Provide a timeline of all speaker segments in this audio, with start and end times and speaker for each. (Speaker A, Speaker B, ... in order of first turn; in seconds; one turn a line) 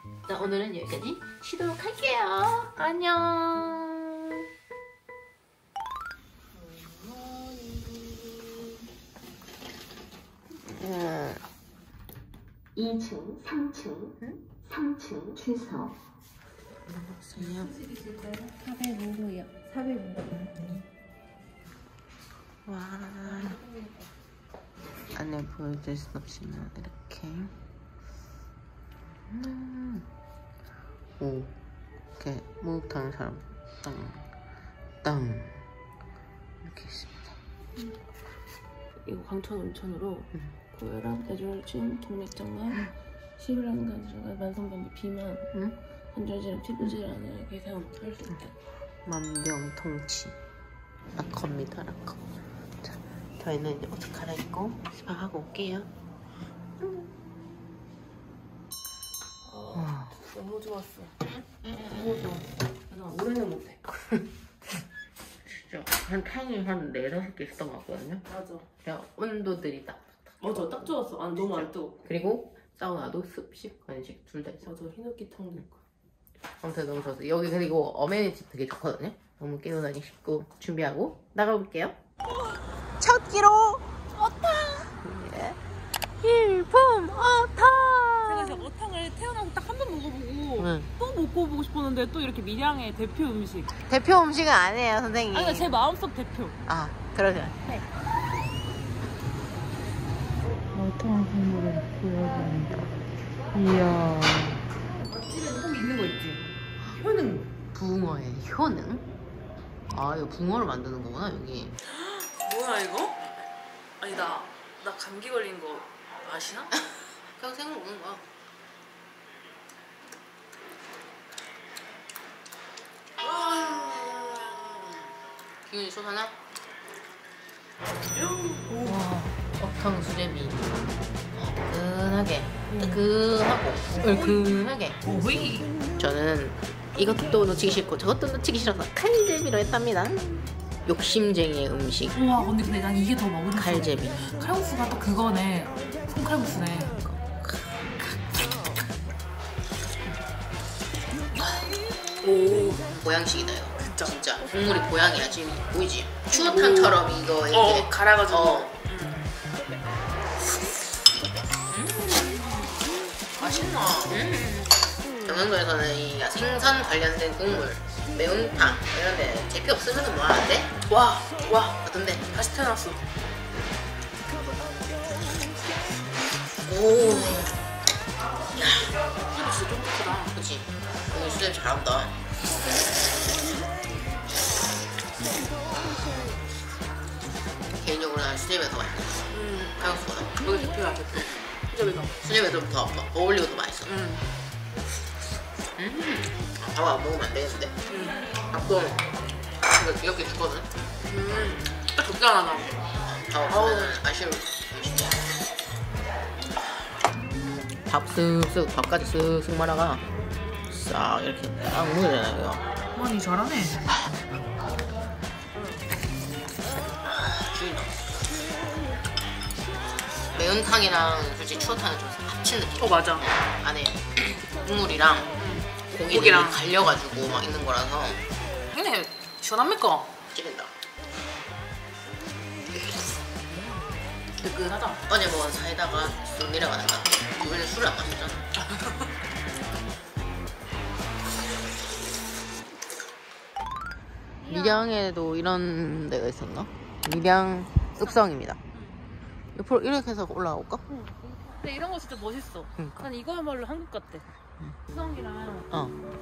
Speaker A: 0.2-4.4
Speaker B: 6.6-8.0
Speaker A: 10.6-11.4
Speaker C: 12.8-14.1
Speaker C: 14.8-15.9
Speaker A: 16.9-17.8
Speaker B: 17.6-20.1
Speaker A: 22.6-23.6
Speaker B: 23.2-24.0
Speaker A: 25.1-27.5
Speaker A: 29.3-30.1
Speaker A: 31.2-31.5
Speaker A: 32.2-34.2
Speaker A: 35.0-35.6
Speaker A: 36.6-37.3
Speaker B: 39.0-45.5
Speaker A: 45.5-45.8
Speaker B: 46.1-48.5
Speaker A: 49.0-50.4
Speaker A: 51.1-52.2
Speaker A: 52.8-55.9
Speaker B: 59.4-61.2
Speaker A: 59.7-60.1
Speaker A: 61.6-62.3
Speaker B: 61.9-63.8
Speaker A: 63.9-64.2
Speaker A: 65.5-68.2
Speaker B: 68.3-68.6
Speaker A: 68.8-74.8
Speaker B: 70.4-72.0
Speaker B: 74.6-75.7
Speaker A: 76.6-82.0
Speaker A: 83.0-83.9
Speaker B: 84.1-84.9
Speaker A: 84.9-85.6
Speaker A: 86.2-88.7
Speaker B: 88.2-93.7
Speaker A: 90.6-90.9
Speaker A: 93.9-95.7
Speaker B: 95.3-96.6
Speaker A: 96.7-97.8
Speaker B: 100.7-102.8
Speaker B: 103.5-107.5
Speaker A: 107.7-109.0
Speaker A: 109.9-111.7
Speaker B: 111.9-113.3
Speaker B: 114.0-116.7
Speaker A: 117.3-118.3
Speaker B: 123.2-124.7
Speaker A: 125.6-126.3
Speaker B: 128.1-129.0
Speaker A: 128.8-135.0
Speaker B: 132.7-133.0
Speaker B: 133.9-134.5
Speaker B: 135.0-135.7
Speaker A: 136.0-142.2
Speaker B: 142.1-146.9
Speaker A: 143.5-144.2
Speaker A: 146.5-147.8
Speaker B: 152.2-152.9
Speaker A: 152.8-158.7
Speaker B: 153.8-154.1
Speaker B: 156.3-157.0
Speaker B: 157.5-159.2
Speaker A: 161.7-162.7
Speaker B: 163.4-164.2
Speaker A: 164.1-170.8
Speaker B: 170.8-171.8
Speaker A: 171.8-172.3
Speaker B: 172.3-173.0
Speaker A: 176.7-177.6
Speaker B: 177.1-177.3
Speaker A: 178.5-178.9
Speaker B: 179.3-180.3
Speaker A: 180.3-182.2
Speaker A: 187.7-191.4
Speaker B: 189.3-189.7
Speaker B: 190.4-191.2
Speaker B: 191.7-192.1
Speaker A: 192.2-194.0
Speaker B: 193.9-194.2
Speaker A: 195.8-197.7
Speaker B: 197.9-198.2
Speaker A: 198.5-199.0
Speaker A: 199.6-200.7
Speaker B: 201.1-202.7
Speaker A: 203.1-205.2
Speaker B: 203.5-203.9
Speaker A: 207.9-210.0
Speaker A: 210.7-212.6
Speaker B: 212.9-213.8
Speaker A: 217.0-218.2
Speaker A: 220.3-225.3
Speaker B: 222.8-223.2
Speaker B: 225.4-226.6
Speaker A: 225.9-228.2
Speaker B: 228.7-230.1
Speaker A: 230.3-230.7
Speaker B: 234.4-235.0
Speaker A: 235.1-238.4
Speaker B: 244.4-244.9
Speaker A: 244.4-248.6
Speaker B: 248.7-249.0
Speaker A: 249.5-250.8
Speaker B: 250.9-254.2
Speaker A: 252.8-253.1
Speaker A: 254.6-255.0
Speaker B: 254.9-255.7
Speaker A: 255.7-255.9